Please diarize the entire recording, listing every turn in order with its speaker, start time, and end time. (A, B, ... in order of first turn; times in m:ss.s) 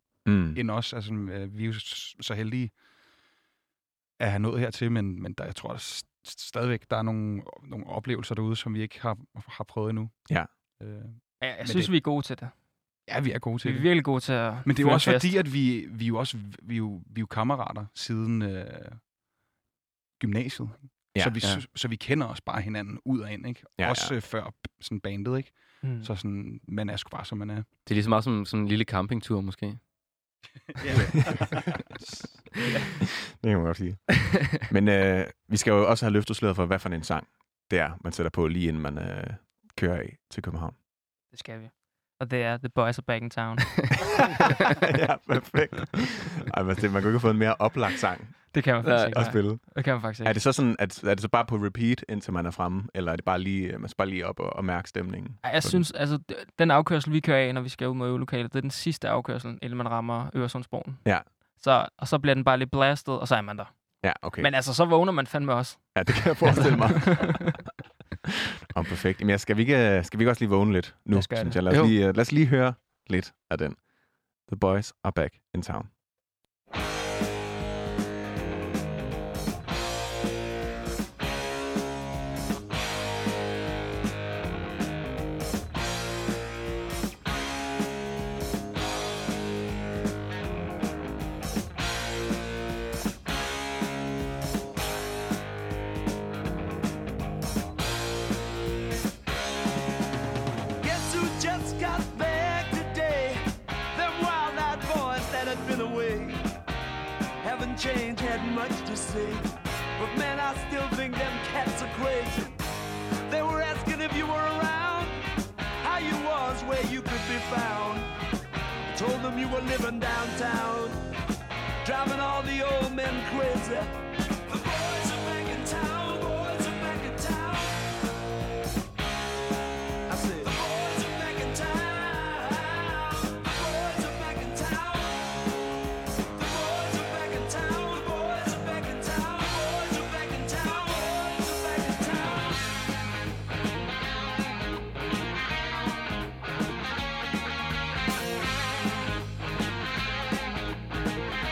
0:00.2-0:00.6 A
0:00.4-0:02.7 B
0:04.2-0:10.1 B
0:10.8-0:11.9 B
0:11.4-0:12.5 C
0:13.1-0:19.0 B
0:13.6-0:15.4 C
0:20.2-0:27.6 B
0:23.8-0:24.1 A
0:25.8-0:26.1 C
0:27.8-0:29.8 D
0:30.8-0:32.1 B
0:31.0-0:31.6 A
0:33.3-0:40.8 A
0:41.3-0:44.2 C
0:44.0-0:48.5 A
0:48.5-0:50.3 C
0:48.8-0:49.2 D
0:49.1-0:55.8 A
0:55.4-1:07.6 C
1:04.0-1:04.5 A
1:05.9-1:07.6 A
1:08.7-1:13.8 A
1:11.1-1:11.6 C
1:14.4-1:15.9 A
1:40.8-1:43.4 E
1:43.9-1:46.4 E
1:47.4-1:52.6 E
1:53.3-1:55.2 E
1:55.8-1:58.1 E
1:58.9-2:01.0 E
2:01.8-2:03.9 E
2:04.5-2:07.8 E
2:10.1-2:15.3 E
2:16.3-2:22.7 E